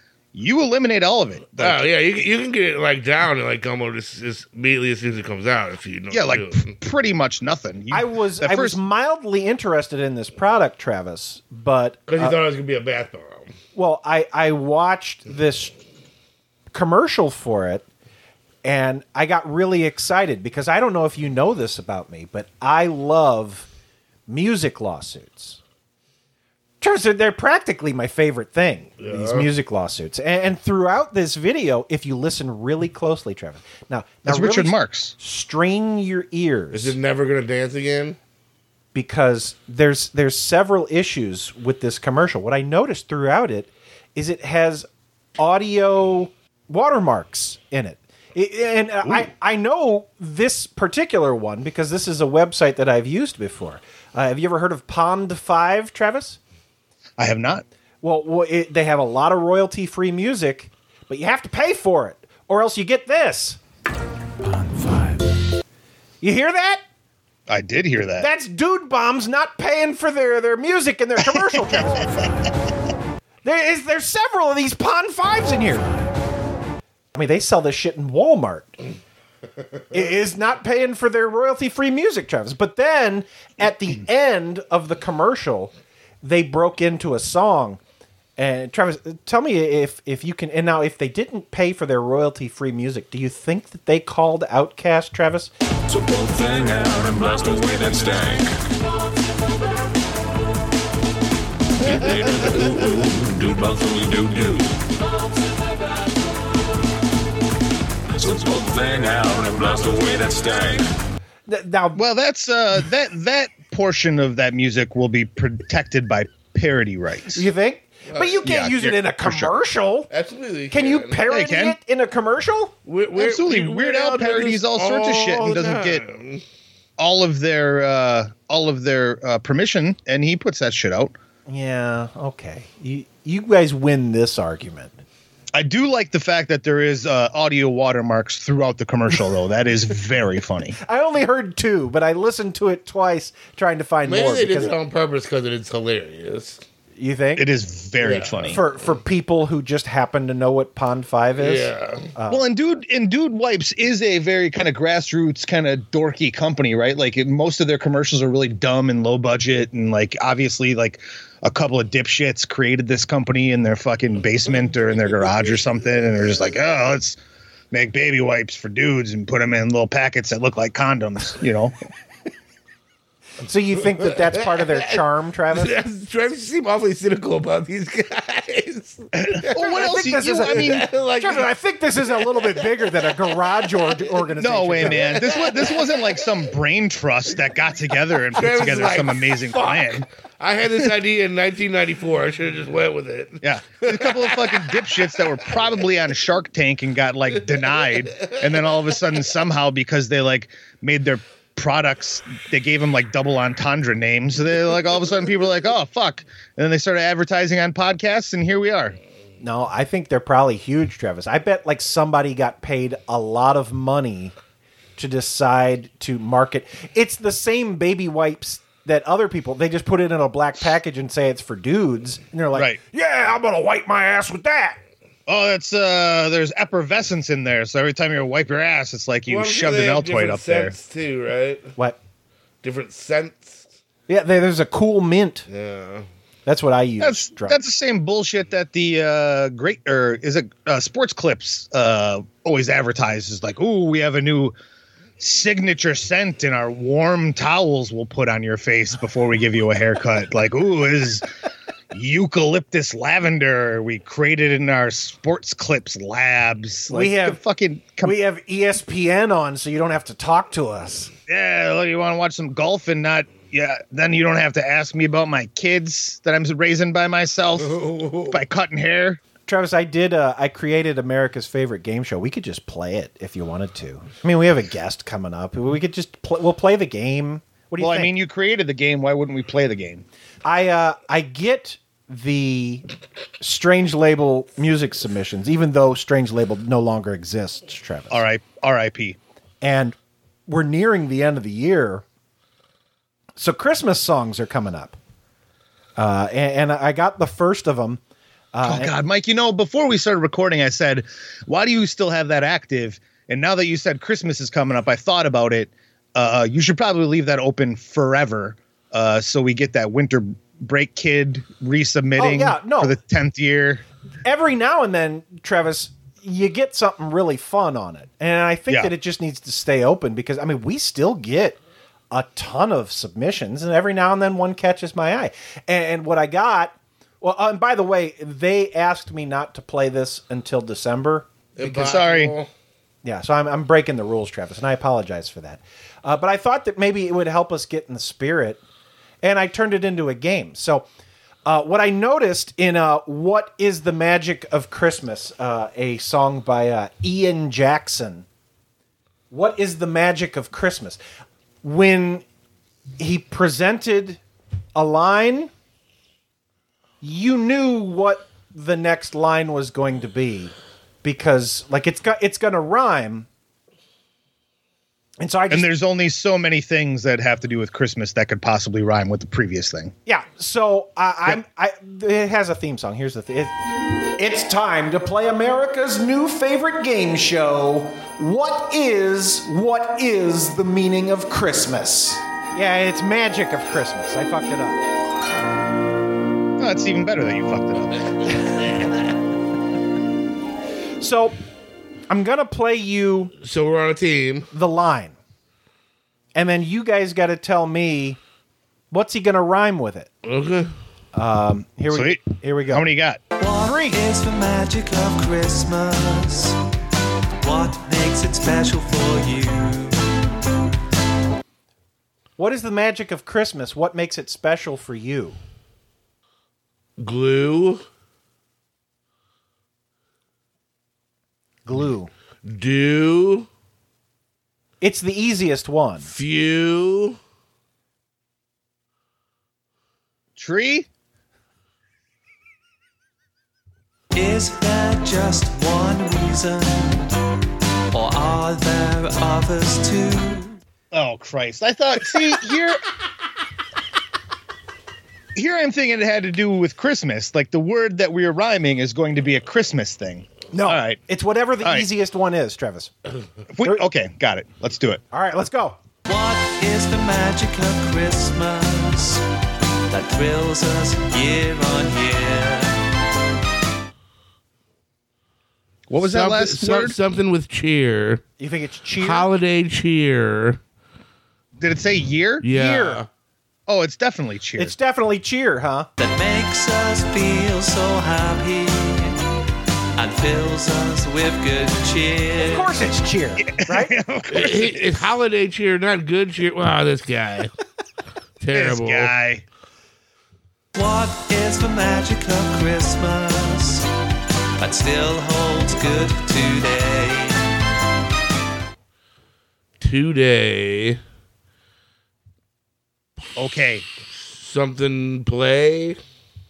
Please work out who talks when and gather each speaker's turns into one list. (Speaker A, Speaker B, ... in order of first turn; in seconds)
Speaker A: 0.3-2.2, 6.1-8.8, 34.2-35.1, 57.2-57.6, 67.5-68.3, 111.9-117.5, 118.4-119.5, 121.3-121.8, 123.2-126.0, 127.0-131.1, 135.5-140.8, 147.3-148.6, 152.3-167.2, 167.7-171.7, 179.1-180.8, 184.4-190.1, 193.4-209.0, 222.5-222.8, 225.3-230.7, 237.0-244.5, 245.2-251.3, 251.9-258.2, 261.3-269.2, 277.8-280.0, 288.1-289.2, 298.6-313.8, 331.6-332.3, 365.5-369.9, 386.6-388.0, 401.9-403.2, 430.4-430.9, 440.9-442.8, 445.3-451.0, 451.6-451.9, 453.5-455.0, 465.9-466.9, 471.6-472.4, 473.7-474.7, 483.4-485.1, 488.5-489.4, 503.4-503.8
Speaker B: 1.6-6.7, 12.1-13.5, 29.0-29.5, 36.7-38.2, 120.1-121.2, 122.9-126.4, 144.1-146.6, 148.0-148.6, 151.4-152.1, 175.5-181.5, 182.2-182.5, 184.8-186.3, 188.2-195.1, 197.6-198.7, 229.3-231.7, 232.6-233.6, 235.5-236.1, 267.6-268.4, 331.6-332.5, 393.4-394.5, 400.2-400.7, 417.0-417.8, 422.4-423.5, 426.1-427.2, 466.0-468.2, 469.0-470.6, 472.4-473.1, 484.3-487.5, 488.4-489.1, 499.8-501.0, 504.3-506.0
Speaker C: 7.9-12.4, 13.7-15.8, 16.7-17.9, 18.6-23.7, 24.3-25.6, 26.8-36.9, 38.9-56.4, 58.0-63.6, 66.2-66.8, 68.2-72.2, 73.4-76.0, 77.1-78.8, 79.9-87.8, 88.4-95.5, 111.5-112.0, 117.3-120.1, 120.7-122.7, 131.5-135.0, 140.8-144.7, 146.9-147.5, 148.5-152.4, 173.4-175.8, 179.6-185.2, 209.4-214.3, 215.0-224.8, 234.1-235.5, 236.4-237.6, 256.9-257.4, 258.0-261.1, 269.5-278.1, 280.4-282.8, 283.4-288.3, 289.6-289.9, 290.5-292.0, 293.4-295.0, 296.0-298.0, 298.5-298.9, 312.2-313.0, 314.2-321.6, 322.1-331.3, 333.0-338.6, 339.2-340.9, 341.4-348.2, 349.3-351.0, 351.6-352.2, 353.0-354.2, 354.7-355.5, 357.0-363.3, 365.2-365.7, 370.1-373.5, 374.2-384.8, 391.0-391.4, 392.1-393.3, 394.5-395.1, 396.3-398.2, 398.9-400.1, 401.1-402.9, 403.6-404.0, 412.4-415.4, 421.6-422.1, 424.8-426.1, 450.5-452.9, 455.1-455.8, 468.4-469.3, 472.5-473.0, 474.6-475.9, 482.4-483.9
Speaker D: 95.9-98.5, 101.8-104.7, 108.1-110.9
Speaker E: 403.4-406.6, 407.4-410.0, 434.1-437.1, 437.9-440.6, 456.1-459.2, 459.9-462.8, 476.0-479.2, 479.9-482.8, 490.7-493.9, 494.6-497.5